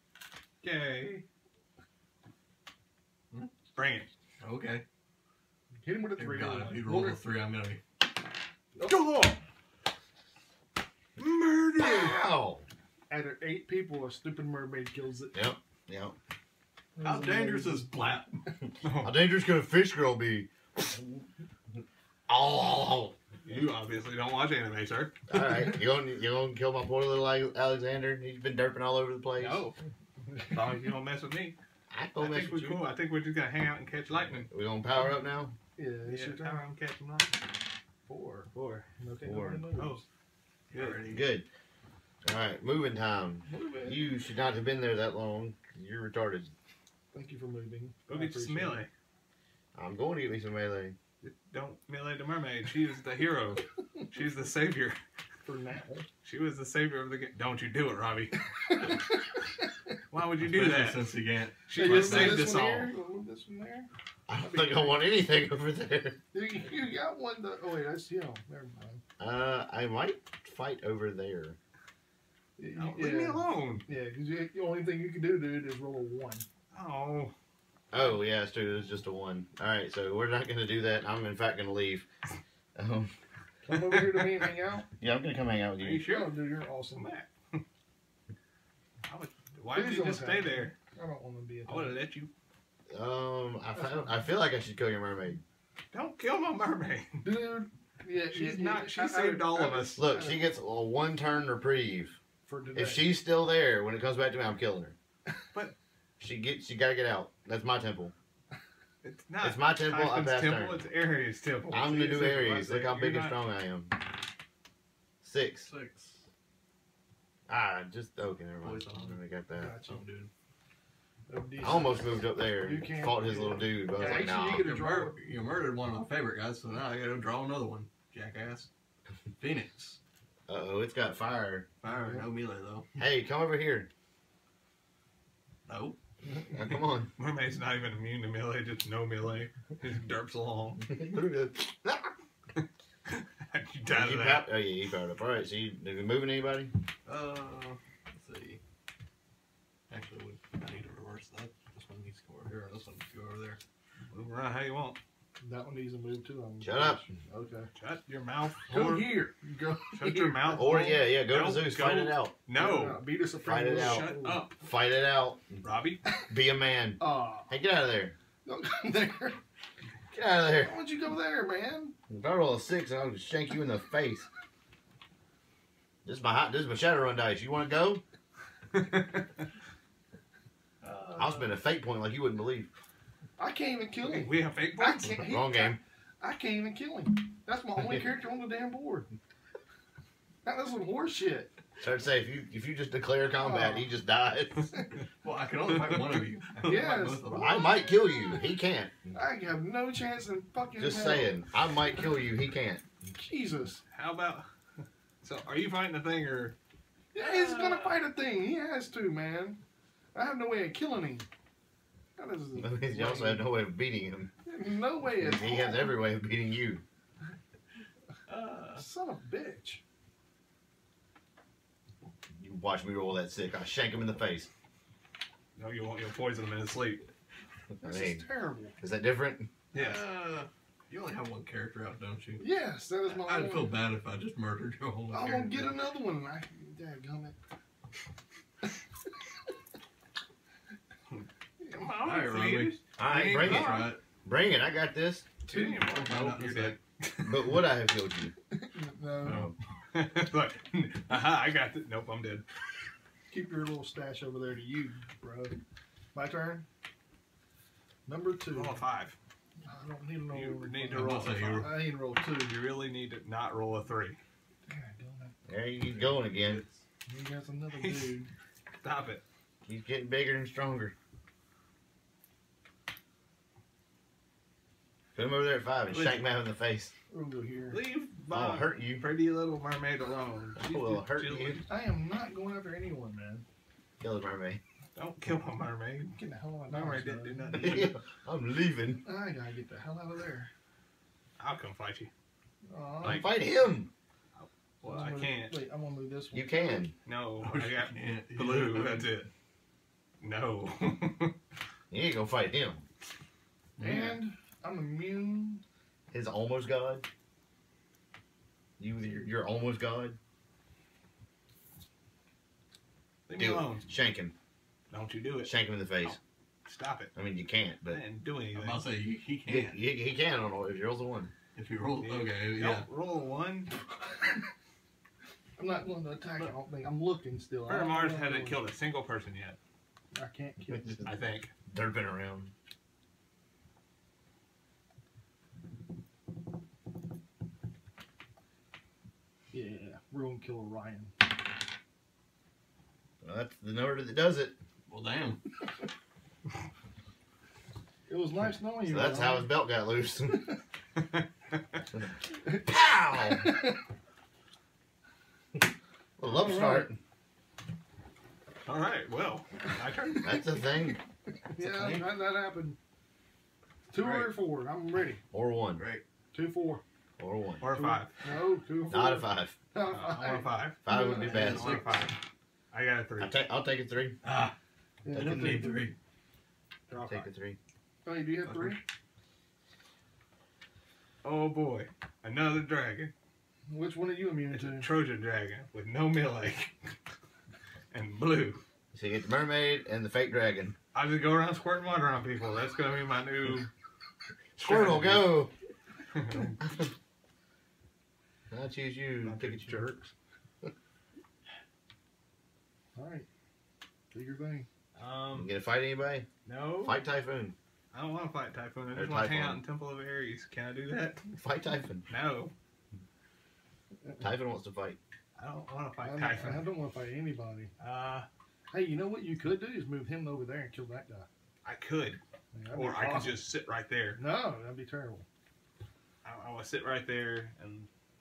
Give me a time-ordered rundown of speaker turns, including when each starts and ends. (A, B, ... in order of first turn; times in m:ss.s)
0:00.6-0:01.2 A
0:03.7-0:04.1 A
0:04.4-0:04.8 B
0:05.8-0:07.2 C
0:06.2-0:07.8 B
0:08.7-0:09.0 C
0:08.8-0:09.4 A
0:11.2-0:12.2 A
0:11.8-0:12.6 D
0:13.1-0:15.4 C
0:15.3-0:16.2 D
0:17.0-0:18.2 C
0:17.0-0:18.3 B
0:18.8-0:19.1 A
0:18.9-0:21.2 D
0:22.3-0:23.5 D
0:23.4-0:25.1 A
0:25.3-0:29.6 D
0:29.4-0:29.8 A
0:30.2-0:30.5 C
0:30.5-0:31.6 A
0:31.9-0:32.8 D
0:32.2-0:34.5 A
0:34.5-0:35.6 D
0:35.8-0:36.6 C
0:36.1-0:37.4 A
0:38.1-0:40.0 C
0:38.5-0:38.8 A
0:39.2-0:39.6 D
0:39.8-0:40.0 A
0:40.7-0:41.2 B
0:40.7-0:41.0 A
0:41.1-0:41.5 D
0:42.2-0:46.5 D
0:43.5-0:44.0 C
0:47.1-0:48.8 C
0:48.1-0:48.9 A
0:49.7-0:51.0 D
0:51.2-0:55.0 A
0:55.4-0:56.0 C
0:56.2-0:58.4 A
0:58.7-0:59.2 C
1:00.1-1:01.1 A
1:00.4-1:02.6 B
1:01.7-1:02.9 A
1:01.7-1:05.1 C
1:04.3-1:06.2 D
1:06.3-1:09.0 C
1:09.2-1:11.6 D
1:12.6-1:16.4 C
1:12.8-1:13.8 A
1:16.7-1:17.3 A
1:17.9-1:22.0 D
1:22.7-1:23.1 D
1:23.6-1:24.8 C
1:23.7-1:24.3 A
1:25.0-1:26.1 D
1:25.8-1:26.3 A
1:26.0-1:27.1 C
1:26.9-1:27.6 A
1:29.1-1:30.7 A
1:29.7-1:32.0 C
1:31.7-1:32.3 A
1:32.9-1:35.4 D
1:35.9-1:37.2 A
1:37.2-1:40.4 C
1:38.3-1:40.0 A
1:40.0-1:42.2 D
1:42.4-1:43.1 C
1:42.7-1:44.9 D
1:46.2-1:48.1 D
1:49.0-1:53.4 A
1:49.4-1:50.8 D
1:51.7-1:52.7 C
1:51.7-1:53.9 D
1:55.2-1:55.7 D
1:55.6-1:56.2 B
1:57.5-1:59.7 D
1:58.6-1:59.2 B
1:59.6-2:00.2 C
1:59.9-2:00.3 B
2:01.3-2:05.2 C
2:01.6-2:04.7 D
2:04.1-2:08.7 B
2:09.4-2:10.0 B
2:10.5-2:11.7 D
2:11.8-2:12.9 B
2:11.8-2:12.3 C
2:13.0-2:13.9 D
2:15.7-2:16.0 B
2:16.5-2:17.1 D
2:17.2-2:21.1 A
2:20.9-2:22.1 D
2:22.6-2:24.4 A
2:23.9-2:26.7 D
2:27.0-2:28.6 B
2:29.9-2:33.6 B
2:34.1-2:35.0 A
2:35.4-2:37.7 C
2:36.6-2:37.0 D
2:37.8-2:39.2 A
2:38.7-2:41.0 C
2:39.9-2:43.0 A
2:40.5-2:42.3 D
2:42.5-2:44.4 C
2:43.4-2:45.6 D
2:43.8-2:44.5 A
2:45.6-2:46.0 A
2:46.3-2:48.1 D
2:47.0-2:47.5 C
2:48.4-2:49.4 C
2:50.1-2:50.7 D
2:50.6-2:51.9 C
2:52.1-2:54.3 D
2:56.0-2:58.0 D
3:00.8-3:01.5 B
3:01.2-3:02.7 D
3:03.4-3:09.1 C
3:04.0-3:05.1 A
3:05.2-3:05.8 D
3:10.4-3:11.5 C
3:11.8-3:14.7 D
3:13.4-3:13.9 C
3:15.2-3:17.6 B
3:15.7-3:16.2 A
3:16.6-3:18.3 C
3:17.3-3:19.0 D
3:19.1-3:21.4 C
3:20.8-3:22.8 D
3:23.0-3:23.8 C
3:23.9-3:24.5 A
3:25.2-3:26.6 A
3:27.1-3:29.6 C
3:27.2-3:27.9 A
3:30.1-3:31.3 C
3:32.2-3:33.4 C
3:32.6-3:34.3 D
3:34.4-3:35.9 C
3:35.0-3:36.8 D
3:38.3-3:38.8 B
3:38.8-3:39.8 C
3:42.4-3:44.5 D
3:45.6-3:47.0 A
3:47.8-3:48.2 D
3:47.8-3:48.8 C
3:48.8-3:49.5 D
3:49.7-3:50.1 A
3:49.7-3:52.4 B
3:52.4-3:53.7 C
3:53.0-3:55.7 B
3:55.1-3:57.4 C
4:01.1-4:03.9 A
4:01.6-4:01.9 C
4:02.0-4:04.0 B
4:03.0-4:05.3 D
4:05.5-4:07.5 A
4:05.5-4:05.8 C
4:05.7-4:06.8 B
4:07.2-4:08.3 D
4:08.5-4:09.5 C
4:09.2-4:09.5 D
4:09.9-4:12.4 A
4:13.3-4:15.6 C
4:16.1-4:16.6 C
4:18.0-4:18.8 C
4:18.5-4:19.2 A
4:19.6-4:22.6 C
4:20.3-4:24.2 A
4:20.9-4:21.8 B
4:24.6-4:25.3 C
4:25.4-4:26.6 D
4:26.0-4:26.8 B
4:27.1-4:28.3 C
4:27.8-4:28.1 A
4:28.8-4:29.2 A
4:29.6-4:30.9 D
4:35.1-4:36.9 D
4:37.1-4:37.8 C
4:37.7-4:41.6 A
4:38.3-4:39.0 D
4:40.6-4:41.6 D
4:41.7-4:43.4 C
4:44.0-4:44.6 D
4:44.9-4:47.9 A
4:46.2-4:47.8 C
4:47.5-4:49.0 D
4:49.0-4:50.5 C
4:51.4-4:52.1 A
4:52.6-4:53.2 C
4:53.0-4:53.9 D
4:54.4-4:55.5 A
4:54.8-4:56.8 C
4:56.3-4:56.9 D
4:57.0-4:59.3 A
4:57.4-4:59.1 B
5:00.2-5:01.3 A
5:01.9-5:02.8 D
5:03.8-5:04.2 B
5:03.8-5:05.6 C
5:06.1-5:07.0 D
5:08.8-5:10.2 D
5:13.3-5:13.8 A
5:13.4-5:14.3 D
5:14.9-5:17.1 A
5:15.4-5:16.2 D
5:17.1-5:18.0 D
5:17.9-5:18.9 A
5:18.5-5:19.8 B
5:19.4-5:21.3 D
5:21.5-5:22.8 B
5:22.0-5:23.7 A
5:25.6-5:28.7 C
5:27.7-5:29.6 A
5:30.1-5:31.0 C
5:30.7-5:31.1 D
5:31.0-5:31.5 A
5:31.7-5:32.5 D
5:39.5-5:41.1 C
5:43.2-5:44.5 D
5:44.9-5:45.4 B
5:48.1-5:49.5 C
5:48.8-5:50.5 D
5:51.0-5:51.6 A
5:52.5-5:53.5 D
5:53.3-5:53.7 C
5:56.2-5:56.9 D
5:56.2-5:56.9 C
5:58.6-6:00.3 A
6:00.2-6:01.0 D
6:01.5-6:02.8 C
6:01.5-6:02.1 D
6:03.9-6:05.2 C
6:04.0-6:04.3 A
6:05.3-6:05.8 D
6:05.8-6:06.0 B
6:06.3-6:06.8 C
6:07.2-6:07.6 D
6:07.6-6:08.1 A
6:07.6-6:11.7 C
6:08.9-6:09.6 D
6:09.8-6:12.2 A
6:10.8-6:12.0 D
6:11.3-6:12.0 B
6:12.7-6:13.4 A
6:13.2-6:14.2 D
6:14.2-6:14.5 B
6:15.0-6:15.9 C
6:15.1-6:16.0 B
6:16.9-6:17.3 A
6:17.0-6:17.6 D
6:18.0-6:18.8 C
6:18.4-6:18.8 B
6:21.2-6:23.1 A
6:23.7-6:24.9 C
6:24.5-6:26.9 A
6:27.9-6:28.6 A
6:28.9-6:30.7 D
6:30.9-6:33.7 A
6:34.6-6:35.4 A
6:34.6-6:35.5 D
6:36.1-6:36.5 A
6:36.6-6:36.9 D
6:38.5-6:39.8 D
6:39.2-6:40.1 A
6:43.0-6:43.3 C
6:44.1-6:44.7 C
6:45.0-6:45.5 A
6:45.3-6:46.3 D
6:46.4-6:47.0 A
6:46.8-6:47.5 D
6:47.9-6:51.3 A
6:48.9-6:49.6 D
6:51.4-6:52.0 D
6:52.1-6:52.5 A
6:54.2-6:55.0 D
6:55.4-6:56.7 A
6:56.0-6:57.7 C
6:57.8-6:58.3 A
6:58.7-7:01.3 C
7:01.6-7:02.2 A
7:02.5-7:03.4 C
7:02.7-7:04.2 A
7:04.2-7:05.2 C
7:06.2-7:07.9 A